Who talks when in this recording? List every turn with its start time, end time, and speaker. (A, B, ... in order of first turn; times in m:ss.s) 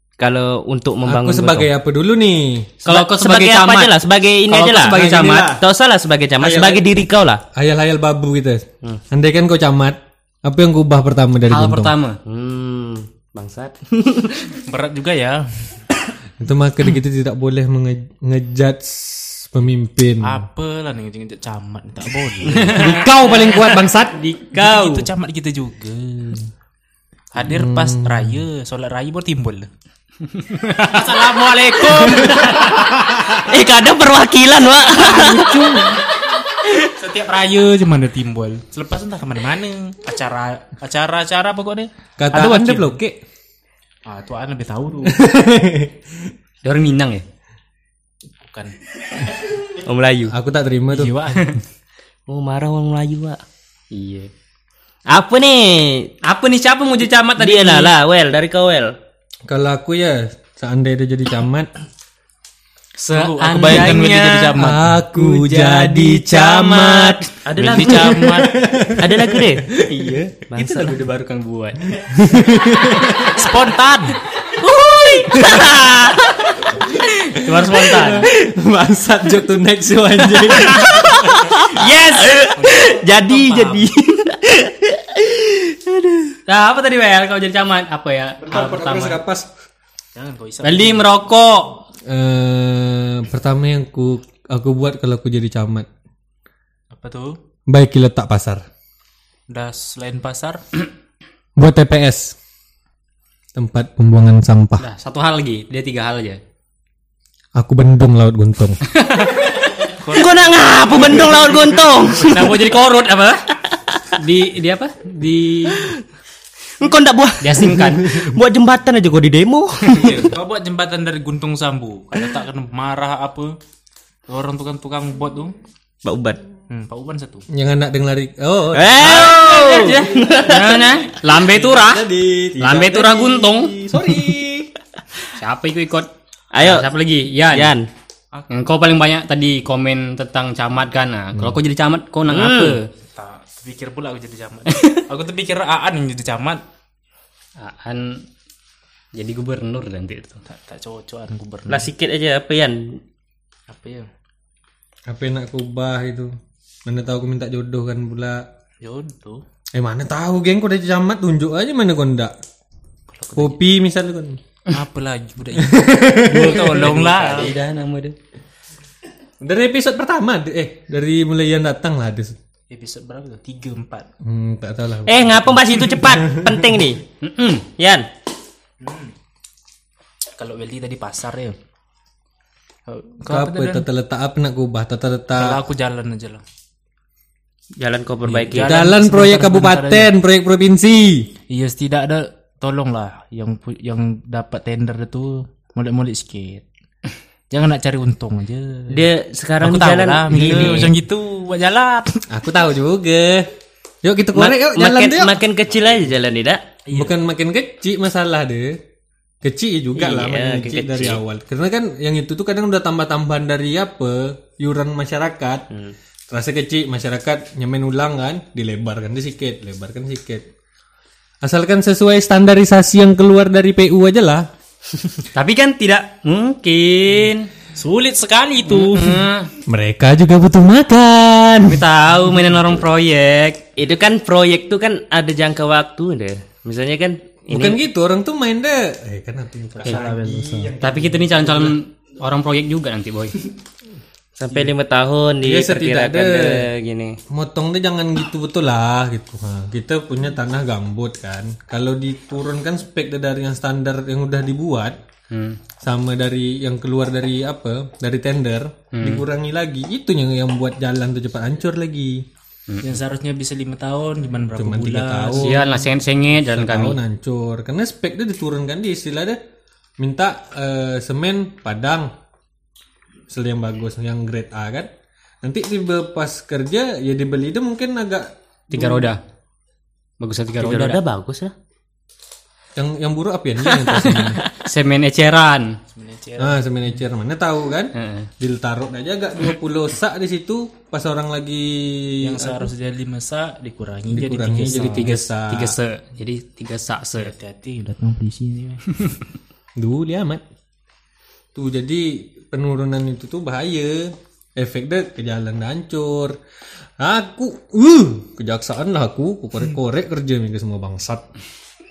0:00.2-0:01.7 A
0:01.1-0:02.7 B
0:02.8-0:03.9 C
0:02.8-0:07.4 A
0:04.5-0:05.5 C
0:04.8-0:05.6 B
0:06.4-0:06.9 B
0:07.5-0:11.9 B
0:11.5-0:12.2 C
0:12.2-0:14.5 A
0:14.7-0:15.8 D
0:16.4-0:20.4 B
0:20.2-0:22.9 D
0:22.5-0:25.1 C
0:22.6-0:24.2 B
0:24.6-0:26.5 D
0:27.3-0:29.7 D
0:27.4-0:28.4 B
0:30.4-0:33.0 C
0:30.8-0:32.6 D
0:33.1-0:35.5 A
0:35.1-0:36.0 B
0:35.2-0:35.5 C
0:36.7-0:43.0 D
0:42.2-0:43.2 B
0:44.1-0:45.2 D
0:45.0-0:46.1 B
0:46.6-0:47.2 C
0:48.4-0:48.8 D
0:49.8-0:50.3 A
0:50.3-0:51.2 B
0:50.9-0:51.6 D
0:52.3-0:53.4 A
0:53.9-0:54.3 C
0:55.1-0:56.1 A
0:56.2-0:57.9 C
0:57.4-0:59.0 A
0:59.5-1:01.7 B
1:03.0-1:04.6 C
1:03.1-1:05.0 D
1:04.6-1:07.3 B
1:05.1-1:07.3 C
1:07.4-1:08.3 A
1:07.6-1:08.6 D
1:08.0-1:10.0 B
1:08.9-1:09.7 A
1:09.8-1:12.0 C
1:10.5-1:11.0 A
1:12.0-1:13.4 B
1:13.3-1:14.2 D
1:14.7-1:16.7 A
1:15.0-1:15.3 C
1:17.0-1:18.3 C
1:17.5-1:21.1 B
1:20.6-1:26.4 A
1:20.7-1:22.4 C
1:22.6-1:23.9 D
1:26.5-1:29.2 C
1:28.4-1:29.5 B
1:30.2-1:31.1 D
1:30.6-1:31.8 C
1:32.1-1:35.9 B
1:36.9-1:37.4 D
1:37.7-1:38.6 B
1:39.5-1:40.6 D
1:41.6-1:42.4 B
1:43.6-1:44.9 B
1:44.8-1:46.4 C
1:47.6-1:48.8 B
1:48.9-1:49.5 C
1:50.0-1:50.3 D
1:50.1-1:52.6 A
1:52.2-1:53.4 C
1:54.1-1:55.8 C
1:56.8-2:00.2 A
1:57.4-1:58.1 C
1:59.9-2:03.6 D
2:04.3-2:05.5 D
2:06.0-2:06.4 A
2:06.7-2:07.5 D
2:07.5-2:10.3 B
2:08.7-2:10.9 A
2:09.0-2:12.1 C
2:11.4-2:14.7 B
2:12.6-2:13.7 C
2:15.3-2:16.1 C
2:16.5-2:16.9 A
2:16.6-2:17.7 C
2:17.5-2:17.9 A
2:18.5-2:22.8 C
2:22.3-2:22.8 A
2:23.1-2:26.6 D
2:27.6-2:28.2 C
2:29.2-2:30.4 C
2:30.5-2:31.9 D
2:31.7-2:33.0 A
2:33.7-2:34.1 D
2:35.1-2:36.3 B
2:36.9-2:38.4 B
2:38.8-2:39.4 D
2:39.8-2:42.3 B
2:43.1-2:43.6 D
2:43.4-2:44.4 B
2:44.7-2:47.5 D
2:45.6-2:47.0 B
2:46.3-2:48.2 C
2:49.4-2:52.4 B
2:52.7-2:54.1 D
2:54.2-2:56.8 B
2:55.1-2:57.0 A
2:57.2-2:57.7 C
2:57.8-2:58.1 A
2:58.8-2:59.1 D
3:00.4-3:01.6 D
3:02.9-3:03.9 D
3:03.3-3:05.6 B
3:05.3-3:06.4 D
3:07.8-3:08.8 A
3:08.2-3:10.1 D
3:08.5-3:11.3 B
3:11.5-3:16.6 D
3:17.5-3:19.0 D
3:18.9-3:20.9 A
3:19.6-3:22.2 D
3:20.4-3:20.8 B
3:22.3-3:23.5 B
3:24.0-3:25.4 B
3:24.3-3:26.6 A
3:26.9-3:27.1 D
3:26.9-3:28.8 B
3:29.4-3:35.7 B
3:30.0-3:31.2 A
3:36.3-3:40.5 B
3:41.4-3:44.5 B
3:45.4-3:47.5 C
3:47.8-3:49.3 D
3:48.7-3:49.5 C
3:49.7-3:51.8 B
3:51.7-3:53.6 C
3:53.8-3:57.8 A
3:57.5-4:01.8 B
3:59.7-4:00.7 D
4:00.8-4:03.4 C
4:04.4-4:07.2 A
4:05.4-4:06.7 B
4:07.3-4:15.0 B
4:15.3-4:15.6 C
4:15.8-4:22.3 B
4:18.9-4:19.2 C
4:22.7-4:23.0 C
4:22.8-4:25.8 D
4:24.5-4:25.6 B
4:25.4-4:27.0 C
4:26.5-4:29.4 B
4:30.0-4:32.1 B
4:33.3-4:34.9 B
4:35.4-4:39.1 B
4:38.7-4:39.2 C
4:40.2-4:41.0 C
4:40.6-4:41.5 A
4:42.8-4:44.4 B
4:44.5-4:45.8 C
4:45.9-4:46.6 D
4:46.4-4:52.7 B
4:48.0-4:48.3 C
4:52.2-4:55.2 D
4:54.1-4:55.8 B
4:54.7-4:57.3 C
4:57.2-4:59.2 D
4:59.8-5:00.4 B
5:01.6-5:06.4 B
5:07.0-5:11.3 B